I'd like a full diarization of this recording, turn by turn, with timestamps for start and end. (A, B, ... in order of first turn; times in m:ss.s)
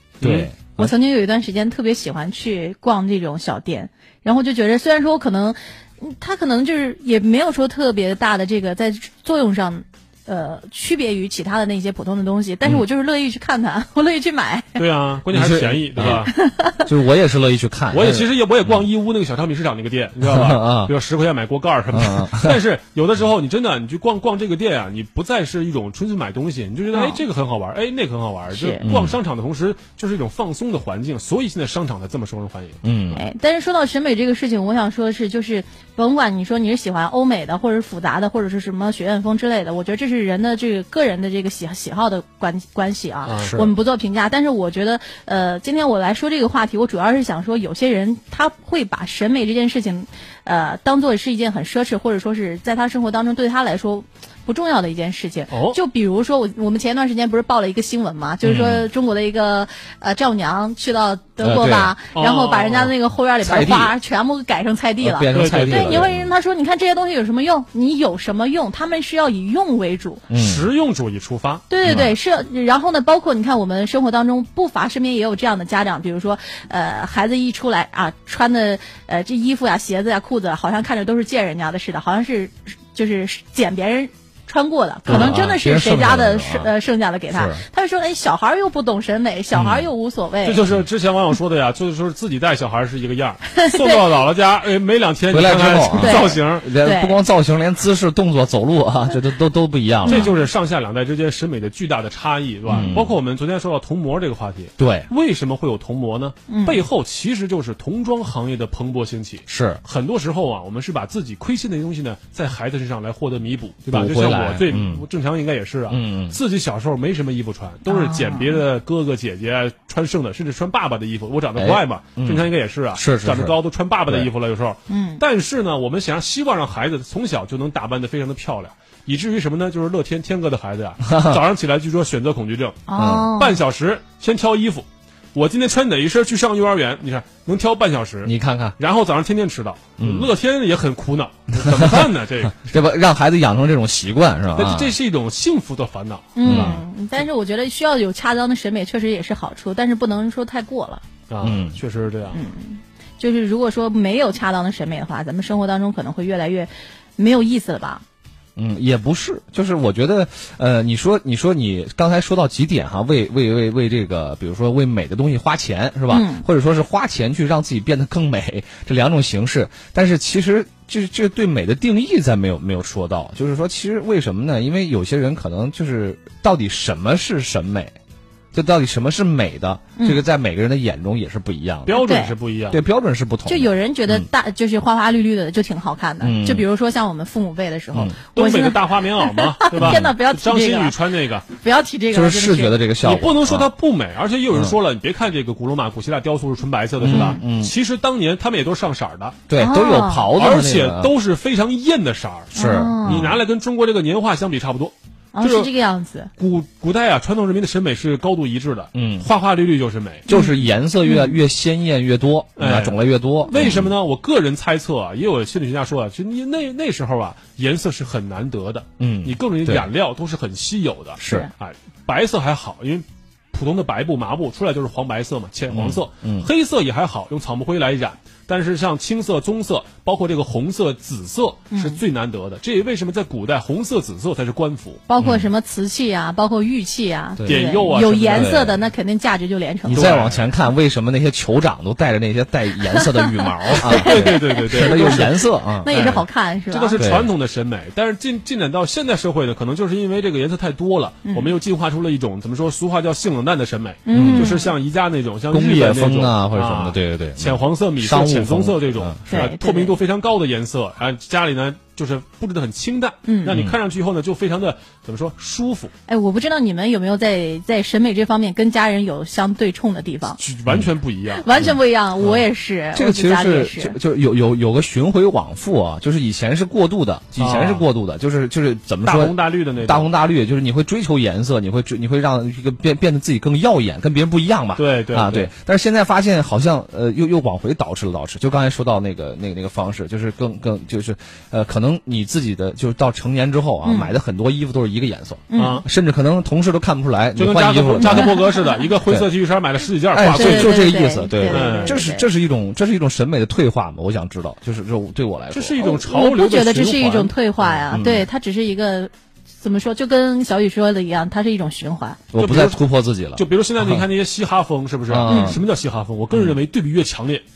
0:00.2-0:00.5 A
0:00.2-0:00.9 B
0:00.8-0:14.8 C
0:14.8-0:16.3 A
0:15.3-0:18.8 B
0:16.0-0:16.8 C
0:17.9-0:32.8 A
0:20.2-0:20.9 B
0:21.9-0:22.6 B
0:26.9-0:27.2 C
0:28.5-0:28.8 C
0:28.8-0:29.2 B
0:32.8-0:33.2 B
0:33.1-1:10.2 C
0:43.3-0:43.7 A
0:55.5-0:55.8 A
0:58.4-0:58.8 B
1:01.4-1:01.9 B
1:02.1-1:02.9 A
1:03.4-1:03.9 B
1:05.0-1:06.3 B
1:05.3-1:06.1 A
1:10.3-1:10.7 B
1:10.3-1:11.6 A
1:11.7-1:30.6 C
1:11.8-1:12.1 B
1:25.1-1:25.3 A
1:25.1-1:26.7 B
1:27.3-1:27.6 B
1:29.5-1:29.9 B
1:30.4-1:36.7 A
1:33.6-1:34.2 C
1:35.3-1:40.3 B
1:36.0-1:37.2 C
1:40.1-1:40.3 C
1:40.1-2:12.8 A
1:42.7-1:43.1 B
1:44.8-1:45.1 B
1:46.5-1:46.8 C
1:49.5-1:49.8 B
1:53.9-1:55.0 B
1:55.9-1:56.4 B
1:57.9-1:58.6 C
2:01.6-2:03.6 B
2:04.9-2:05.2 C
2:12.9-2:13.6 C
2:13.0-2:13.3 B
2:13.4-2:22.7 A
2:18.2-2:18.8 B
2:20.0-2:20.3 B
2:21.8-2:25.0 B
2:24.6-2:26.8 A
2:26.4-2:31.0 C
2:26.4-2:26.8 B
2:31.3-2:32.4 A
2:31.4-2:31.8 B
2:32.3-2:38.0 C
2:38.6-2:58.0 B
2:46.1-2:46.4 C
2:58.5-3:02.0 B
3:01.9-3:02.8 A
3:01.9-3:02.3 C
3:02.7-3:04.3 B
3:03.5-3:11.0 C
3:06.2-3:06.6 B
3:08.4-3:11.4 A
3:09.8-3:10.1 B
3:11.5-3:12.8 C
3:12.1-3:13.7 B
3:13.0-3:19.4 A
3:17.0-3:17.7 B
3:17.1-3:17.4 C
3:19.5-3:21.1 B
3:19.5-3:20.3 C
3:20.4-3:25.7 A
3:22.6-3:23.3 C
3:22.6-3:23.4 B
3:25.3-3:26.3 C
3:26.4-3:30.3 A
3:29.0-3:29.3 B
3:30.3-3:31.4 C
3:30.3-3:33.9 B
3:32.6-3:55.0 A
3:33.6-3:33.8 C
3:39.0-3:39.9 B
3:41.2-3:41.5 B
3:41.3-3:41.5 C
3:45.7-3:46.5 B
3:51.7-3:52.0 C
3:55.1-4:00.1 C
3:55.2-3:55.5 B
3:57.4-3:58.8 B
3:57.4-3:58.6 A
3:59.8-4:06.0 B
3:59.9-4:00.4 A
4:02.9-4:07.0 C
4:04.0-4:05.3 A
4:05.9-4:25.9 A
4:07.0-4:07.3 B
4:11.3-4:11.5 C
4:14.1-4:14.7 C
4:14.1-4:14.6 B
4:15.5-4:19.4 B
4:19.3-4:20.0 C
4:23.2-4:23.6 C
4:23.5-4:23.8 B
4:26.1-4:30.4 C
4:30.4-4:31.6 A
4:31.3-4:34.0 C
4:31.6-4:32.4 B
4:32.9-4:58.4 B
4:37.4-4:37.8 A
4:39.0-4:40.1 A
4:44.8-4:45.5 A
4:53.8-4:54.2 C
4:55.5-4:55.8 C
4:55.6-4:55.8 A
4:57.4-5:00.8 A
4:58.0-4:58.8 C
4:59.1-4:59.3 B
5:00.1-5:05.8 B
5:00.4-5:02.3 C
5:01.5-5:02.0 A
5:05.5-5:07.9 A
5:05.8-5:12.2 C
5:07.9-5:08.3 B
5:12.3-5:14.0 B
5:12.4-5:12.8 A
5:13.4-5:17.4 A
5:15.1-5:15.6 B
5:15.3-5:15.6 C
5:16.3-5:16.6 B